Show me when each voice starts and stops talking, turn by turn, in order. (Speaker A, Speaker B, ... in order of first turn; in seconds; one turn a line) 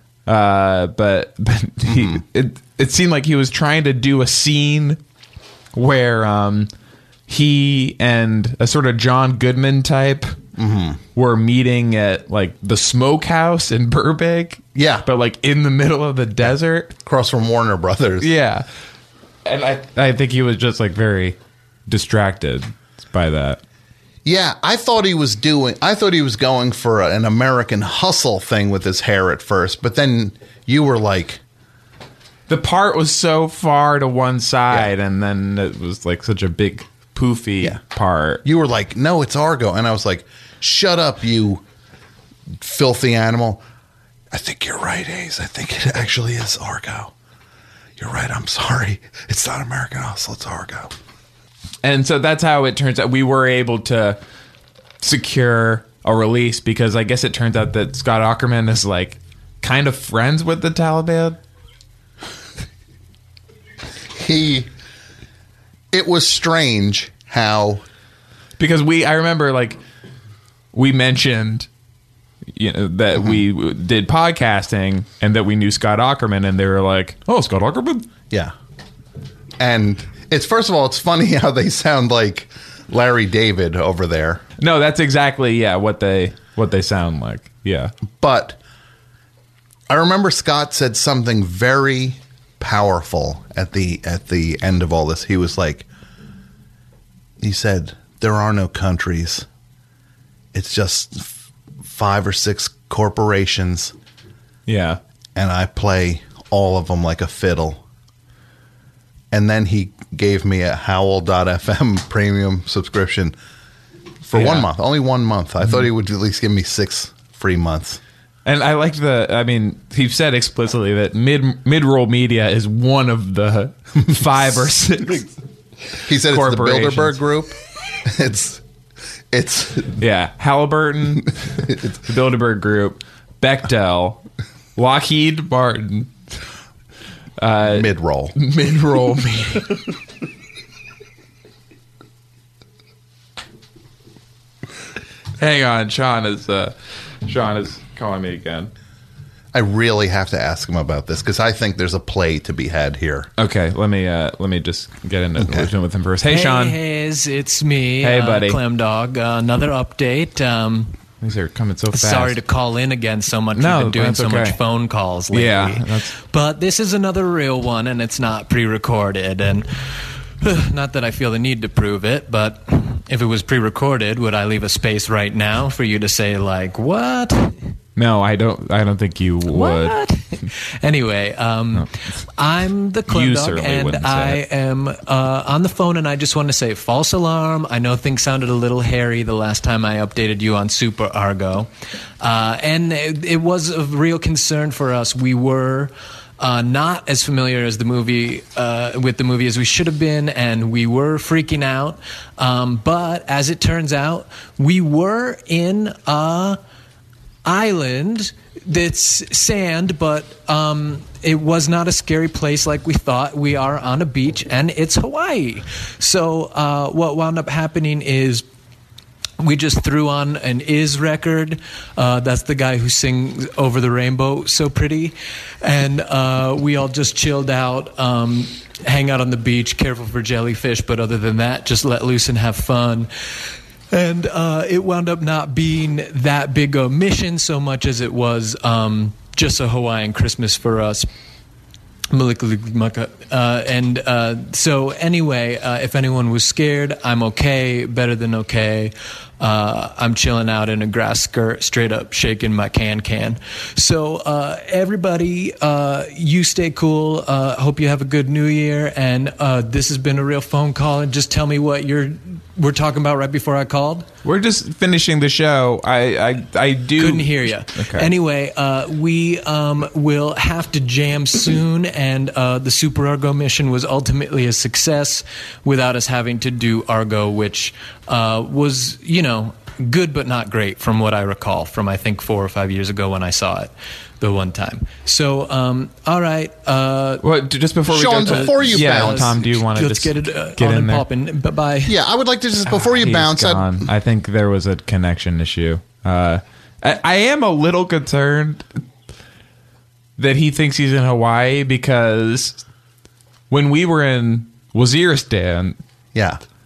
Speaker A: 0.2-5.0
Speaker B: 1.8-2.2
Speaker A: 5.7-6.7
Speaker A: 7.3-10.4
Speaker B: 10.6-11.0
Speaker A: 11.2-16.9
Speaker B: 14.7-15.1
Speaker B: 17.0-18.3
Speaker A: 18.2-18.6
Speaker A: 19.4-23.6
Speaker B: 24.2-31.4
Speaker A: 32.5-38.4
Speaker B: 38.4-41.6
Speaker B: 42.6-43.6
Speaker B: 44.3-47.1
Speaker B: 48.0-50.9
Speaker A: 51.8-54.2
Speaker A: 55.0-61.4
Speaker B: 64.1-64.7
Speaker B: 65.9-67.8
Speaker A: 68.6-69.8
Speaker A: 70.7-71.7
Speaker A: 72.5-78.1
Speaker B: 79.6-84.4
Speaker A: 84.6-87.9
Speaker B: 88.1-88.6
Speaker B: 89.9-95.8
Speaker B: 97.4-99.5
Speaker B: 100.5-103.9
Speaker A: 104.7-105.0
Speaker B: 105.3-107.8
Speaker B: 109.3-113.3
Speaker B: 114.2-118.0
Speaker A: 114.3-114.7
Speaker A: 118.4-125.2
Speaker B: 126.0-128.6
Speaker A: 126.2-127.2
Speaker B: 129.3-130.0
Speaker A: 130.0-134.2
Speaker A: 134.8-136.1
Speaker A: 137.4-139.9
Speaker B: 137.7-138.3
Speaker A: 145.4-146.7
Speaker A: 147.2-148.7
Speaker B: 149.5-153.3
Speaker A: 153.4-156.8
Speaker B: 155.4-155.7
Speaker C: 156.2-161.0
Speaker A: 158.0-158.6
Speaker A: 161.2-162.4
Speaker C: 161.9-169.7
Speaker A: 163.5-164.6
Speaker A: 165.3-166.1
Speaker C: 170.4-177.6
Speaker A: 177.9-180.0
Speaker C: 179.5-191.7
Speaker A: 183.1-184.4
Speaker C: 192.2-206.6
Speaker C: 207.4-218.4
Speaker C: 219.4-233.1
Speaker C: 233.9-241.1
Speaker C: 242.1-264.1
Speaker A: 264.2-268.1
Speaker C: 267.0-287.2
Speaker A: 287.2-291.0
Speaker B: 287.9-289.5
Speaker C: 288.1-291.9
Speaker B: 291.9-293.9
Speaker A: 292.7-298.7
Speaker A: 300.2-302.6
Speaker A: 303.5-305.8
Speaker B: 306.1-306.4